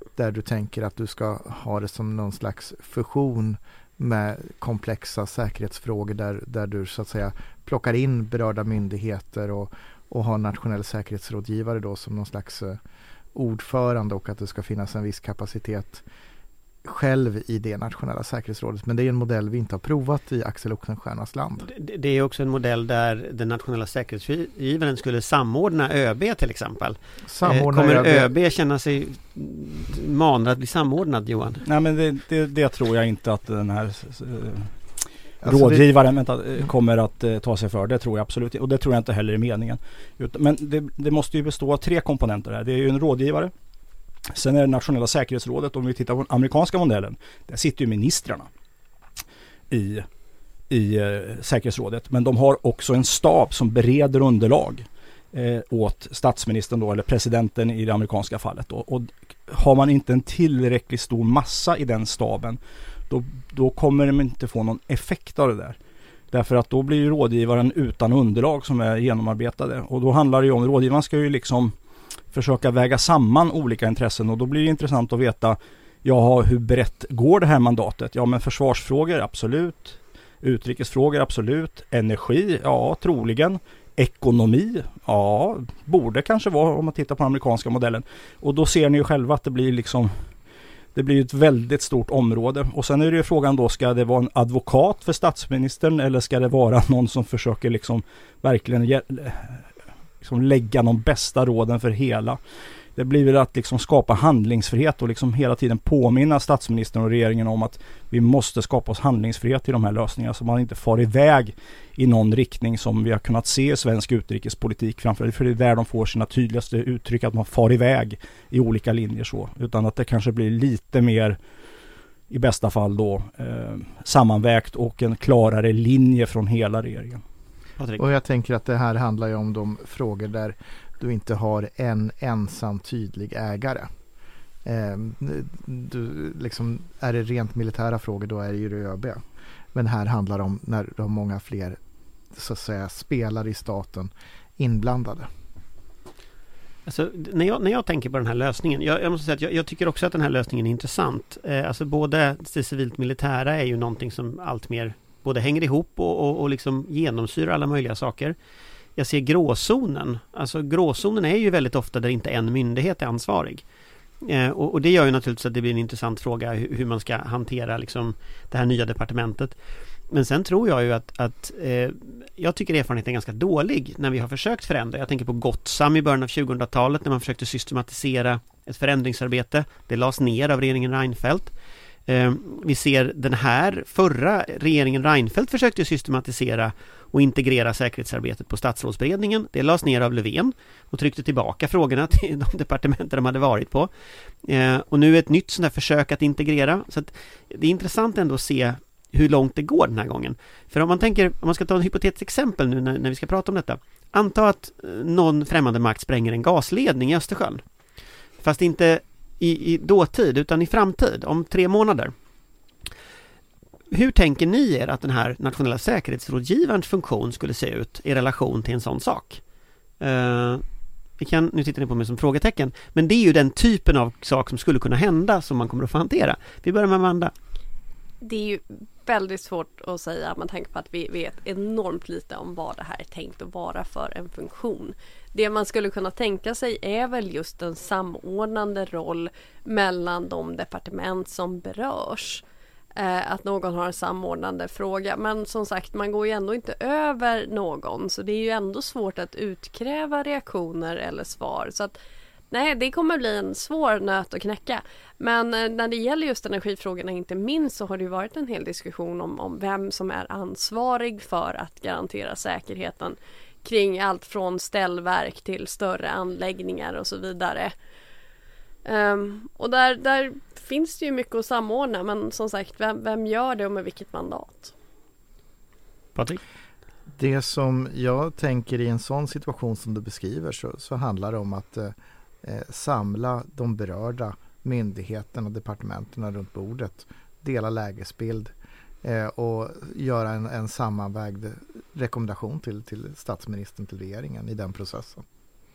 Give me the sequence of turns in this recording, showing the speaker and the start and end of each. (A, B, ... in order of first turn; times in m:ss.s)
0:00.2-0:12.8 A
0:13.3-0:16.0 A
0:16.8-0:21.7 A
0:21.6-0:31.6 B
0:27.3-0:28.3 A
0:31.6-0:34.8 C
0:35.4-0:35.8 A
0:35.4-0:43.5 C
0:44.3-0:48.5 C
0:49.7-0:50.1 C
0:50.7-1:05.8 C
1:06.3-1:11.7 C
1:12.3-1:30.1 C
1:30.9-1:39.7 C
1:40.2-1:42.4 C
1:42.9-2:01.4 C
2:02.3-2:07.2 C
2:07.8-2:08.0 B
2:08.0-2:13.9 A
2:14.6-2:21.8 A
2:22.3-2:25.3 A
2:26.8-2:38.4 B
2:39.0-2:43.6 B
2:44.2-2:49.6 B
2:50.1-3:01.5 B
3:02.1-3:13.9 B
3:14.4-3:27.6 B
3:28.4-3:32.1 B
3:33.9-3:39.4 B
3:40.0-3:40.6 B
3:41.2-3:47.3 B
3:48.2-4:02.4 D
4:03.0-4:12.0 D
4:12.5-4:27.7 D
4:28.8-4:34.7 D
4:36.1-4:36.4 B
4:37.1-4:55.2 A